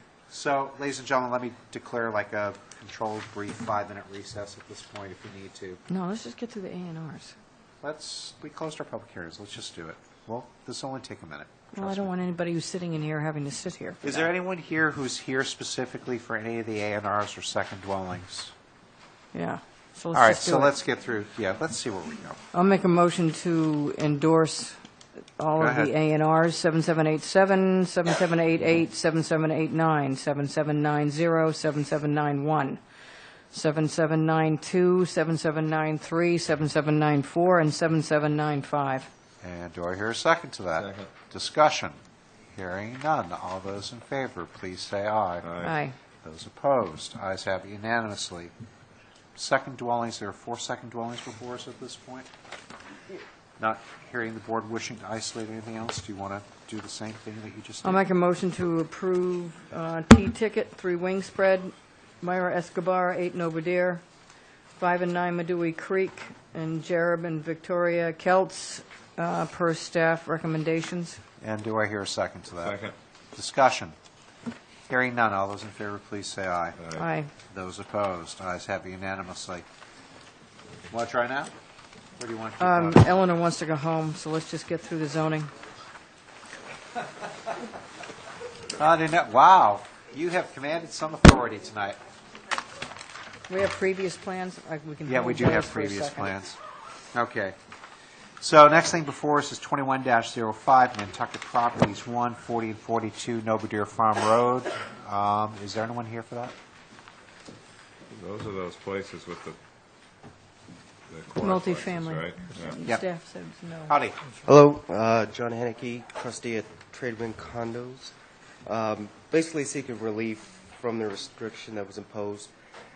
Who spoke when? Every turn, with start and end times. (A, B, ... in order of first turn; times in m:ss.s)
0:00.3-0:05.8 A
0:05.9-0:07.3 B
0:07.8-0:12.1 A
0:11.7-0:14.2 B
0:14.0-0:18.5 A
0:19.3-0:20.7 B
0:20.1-0:22.4 A
0:22.5-0:24.8 B
0:25.4-0:32.8 B
0:25.6-0:25.9 A
0:33.5-0:39.1 B
0:39.4-0:42.0 A
0:40.8-0:41.1 C
0:42.5-0:45.6 A
0:45.4-0:45.7 C
0:45.6-0:46.0 B
0:46.2-0:48.5 A
0:49.4-0:52.3 A
0:53.6-0:58.0 A
0:57.8-1:04.0 B
1:04.8-1:11.2 B
1:11.4-1:14.0 A
1:12.6-1:12.9 C
1:14.9-1:16.8 A
1:16.9-1:17.3 B
1:17.5-1:19.6 A
1:20.9-1:21.5 A
1:22.2-1:23.1 A
1:22.6-1:25.5 B
1:28.8-1:32.0 A
1:33.5-1:36.3 B
1:35.0-1:36.6 A
1:37.1-1:37.6 A
1:38.4-1:46.5 A
1:48.1-1:49.6 C
1:51.1-1:52.8 C
1:51.4-1:54.0 B
1:53.9-1:54.2 A
1:54.4-1:58.1 D
1:58.6-2:02.5 D